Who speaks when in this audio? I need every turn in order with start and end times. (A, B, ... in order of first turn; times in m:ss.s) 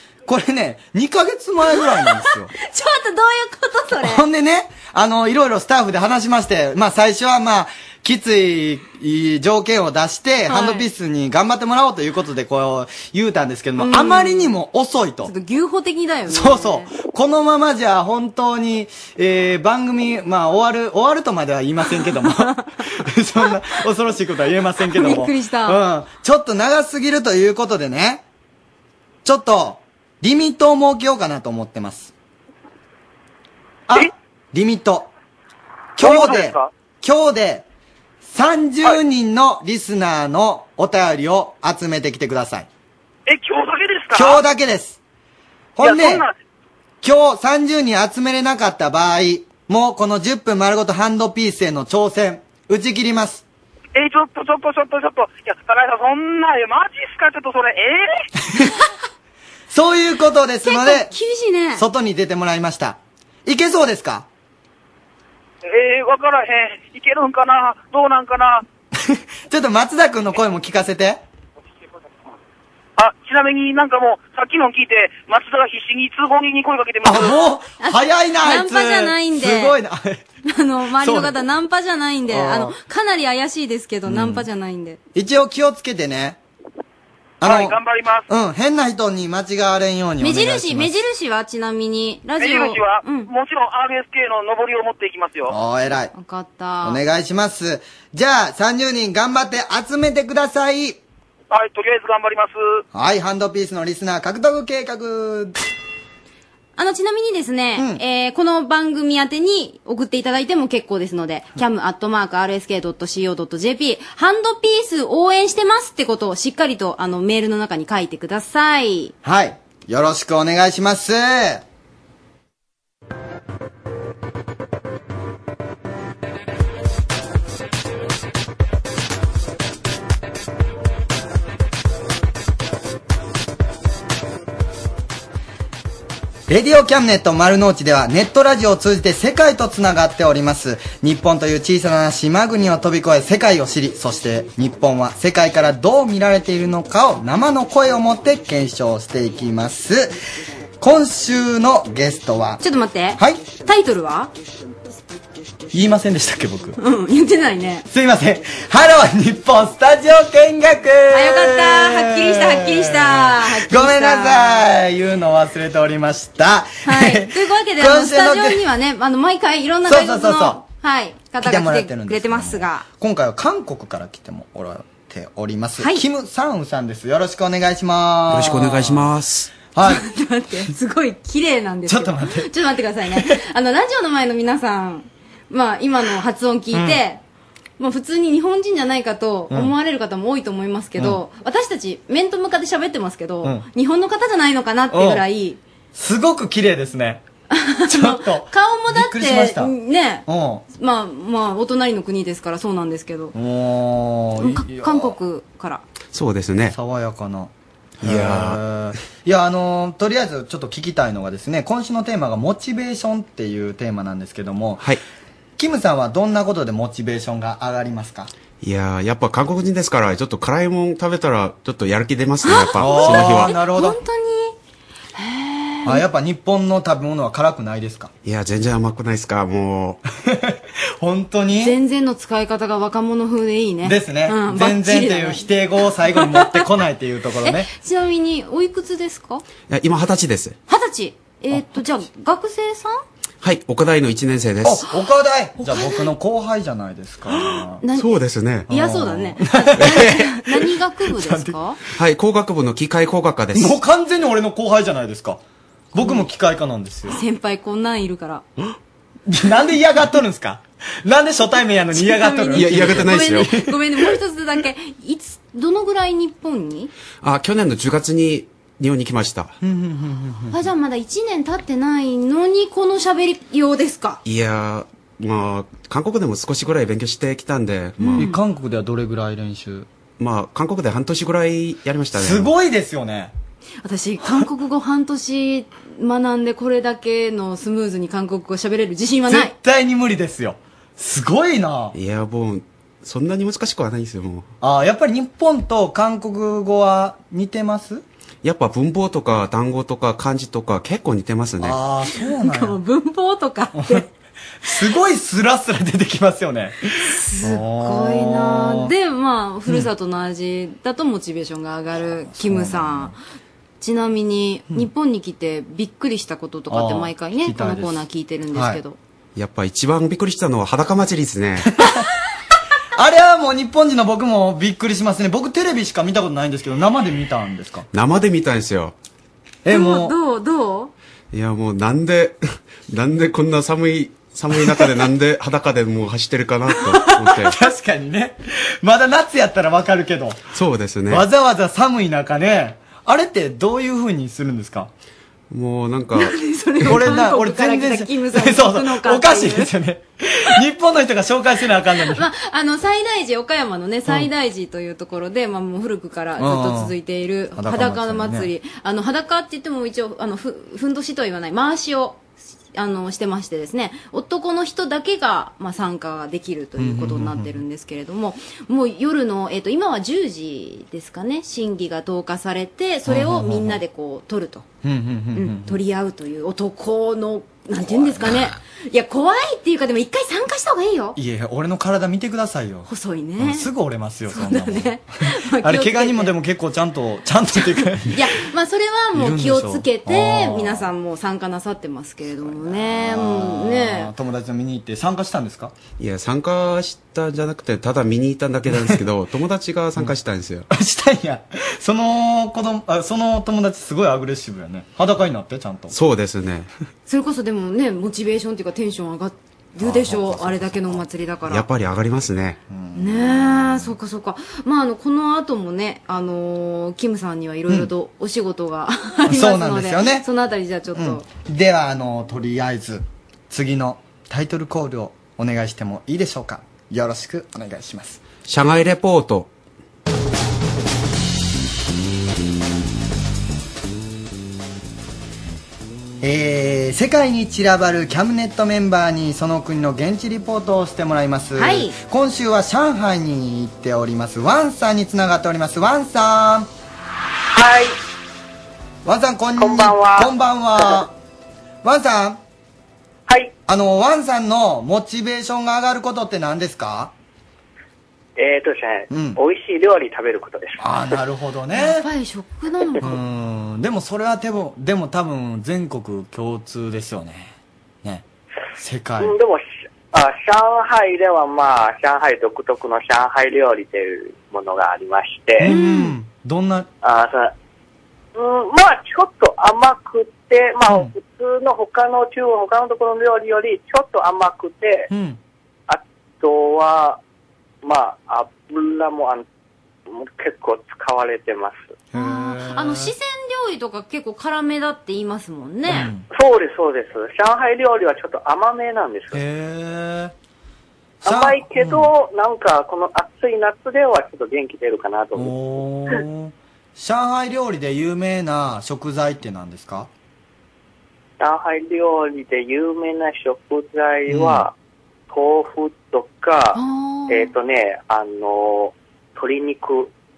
0:00.3-0:02.5 A
0:01.8-0:04.2 B
0:04.0-0:15.3 A
0:10.5-0:10.9 B
0:13.8-0:14.5 B
0:15.2-0:16.9 B
0:16.3-0:28.2 A
0:22.0-0:22.9 B
0:24.9-0:25.8 B
0:29.2-0:32.1 A
0:33.9-0:35.1 A
0:36.0-0:37.6 A
0:36.0-0:36.7 C
0:38.2-0:42.7 A
0:43.3-0:44.4 C
0:44.1-0:45.0 A
0:45.8-0:46.3 A
0:45.8-0:46.4 C
0:47.0-0:53.4 A
0:54.0-0:58.3 C
0:59.7-1:01.1 A
1:00.6-1:01.8 B
1:01.7-1:04.3 A
1:05.6-1:08.6 C
1:09.0-1:11.2 A
1:13.0-1:17.4 C
1:17.0-1:20.2 A
1:17.8-1:19.8 B
1:20.5-1:25.0 B
1:21.0-1:21.4 A
1:22.3-1:22.8 A
1:24.1-1:24.5 A
1:25.2-1:26.4 A
1:27.4-1:27.8 A
1:27.4-1:28.3 C
1:28.3-1:30.9 A
1:30.2-1:33.3 B
1:32.4-1:35.5 C
1:35.5-1:36.1 A
1:36.1-1:37.0 B
1:36.8-1:41.0 A
1:41.5-1:42.8 C
1:42.9-1:45.6 A
1:46.8-1:59.1 B
1:59.2-2:01.6 A
2:16.5-2:30.2 A
2:30.8-2:32.6 A
2:32.6-2:34.3 B
2:33.2-2:33.4 A
2:35.7-2:36.8 A
2:36.8-2:37.9 B
2:37.9-2:48.6 A
2:41.1-2:44.6 B
2:46.8-2:52.8 B
2:49.8-2:50.6 A
2:51.4-2:59.1 A
2:58.3-2:59.5 D
2:59.7-3:00.0 A
2:59.8-3:07.2 B
3:01.9-3:02.5 A
3:06.7-3:07.0 A
3:07.8-3:15.6 B
3:14.9-3:15.2 A
3:15.9-3:17.2 A
3:17.5-3:23.3 B
3:17.9-3:19.7 A
3:20.3-3:20.6 A
3:23.3-3:25.2 A
3:24.4-3:25.8 B
3:26.1-3:26.8 D
3:26.7-3:34.9 A
3:28.0-3:28.6 D
3:35.6-3:38.3 A
3:38.6-3:43.6 D
3:42.4-3:44.6 B
3:42.8-3:44.0 A
3:45.2-3:46.0 B
3:45.8-3:48.1 A
3:48.2-3:50.0 D
3:50.4-3:51.8 A
3:51.6-3:55.5 B
3:53.8-3:57.7 A
3:56.1-3:56.7 B
3:57.4-3:59.4 B
3:59.7-4:00.6 D
4:00.7-4:03.0 B
4:03.4-4:04.8 D
4:04.6-4:07.8 A
4:05.6-4:06.1 B
4:07.3-4:08.1 B
4:07.9-4:08.7 D
4:08.7-4:11.6 A
4:08.7-4:11.8 B
4:09.8-4:10.2 D
4:12.0-4:13.8 D
4:13.6-4:15.4 A
4:15.9-4:17.2 A
4:16.0-4:16.2 B
4:17.1-4:18.4 B
4:19.3-4:23.7 A
4:21.9-4:26.9 B
4:22.5-4:23.5 D
4:27.2-4:29.6 D
4:29.6-4:30.6 A
4:30.5-4:34.2 B
4:34.2-4:38.3 D
4:38.0-4:38.4 B
4:38.2-4:39.9 A
4:40.2-4:42.5 D
4:42.2-4:43.3 A
4:43.8-4:49.5 B
4:49.3-4:52.0 A
4:51.9-4:54.5 D
4:54.6-4:58.0 A
4:58.4-5:01.8 D
5:01.6-5:02.8 A
5:02.1-5:04.0 B
5:03.7-5:04.1 A
5:04.6-5:06.8 A
5:07.0-5:13.1 B
5:07.4-5:08.9 A
5:12.3-5:13.1 A
5:13.8-5:19.0 B
5:16.7-5:18.8 A
5:19.4-5:21.7 D
5:21.6-5:22.0 A
5:23.0-5:27.9 A
5:27.9-5:29.0 D
5:29.6-5:30.1 A
5:29.7-5:30.9 B
5:31.3-5:37.6 D
5:36.8-5:37.3 B
5:37.5-5:40.4 A
5:40.5-5:41.2 D
5:41.1-5:44.9 A
5:45.5-5:46.4 D
5:46.2-5:49.7 B
5:46.8-5:52.2 A
5:52.1-6:02.2 B
5:56.4-5:57.0 A
5:57.6-5:58.5 A
6:02.8-6:14.7 B
6:06.8-6:07.6 A
6:13.1-6:13.8 A
6:14.8-6:15.8 A
6:15.4-6:21.2 B
6:17.8-6:18.5 A
6:21.2-6:28.3 A
6:22.9-6:23.7 B
6:24.3-6:26.4 B
6:27.8-6:34.1 B
6:29.1-6:30.9 A
6:32.2-6:35.8 A
6:36.0-6:40.7 D
6:38.7-6:39.0 A
6:40.7-6:45.9 A
6:45.9-6:46.7 D
6:47.1-6:51.6 B
6:49.8-6:51.0 A
6:51.5-6:52.6 D
6:52.7-6:53.9 A
6:53.0-7:01.2 B
6:59.3-7:00.3 A
7:00.9-7:08.2 A
7:08.4-7:09.5 D
7:16.2-7:26.7 A
7:21.6-7:22.0 B
7:27.5-7:28.0 E
7:29.0-7:31.1 A
7:29.6-7:30.3 E
7:31.8-7:32.4 A
7:33.3-7:33.5 E
7:33.7-7:37.1 A
7:38.4-7:40.8 E
7:39.1-7:39.4 A
7:40.8-7:42.1 A
7:41.7-7:43.2 B
7:43.0-7:48.2 A
7:48.8-7:49.4 A
7:49.2-7:55.7 E
7:55.6-7:56.9 A
7:55.6-7:56.2 B
7:57.0-7:57.5 E
7:58.4-8:05.1 E
8:05.1-8:05.4 A
8:05.9-8:07.2 E
8:07.8-8:09.4 E
8:10.1-8:12.0 E
8:12.1-8:13.1 A
8:12.1-8:16.1 B
8:15.9-8:16.3 A
8:16.3-8:19.4 E
8:19.3-8:20.3 A
8:21.2-8:22.1 A
8:21.2-8:25.6 E
8:25.4-8:30.1 A
8:31.4-8:34.7 E
8:34.3-8:34.7 A
8:35.3-8:40.1 E
8:36.8-8:37.5 B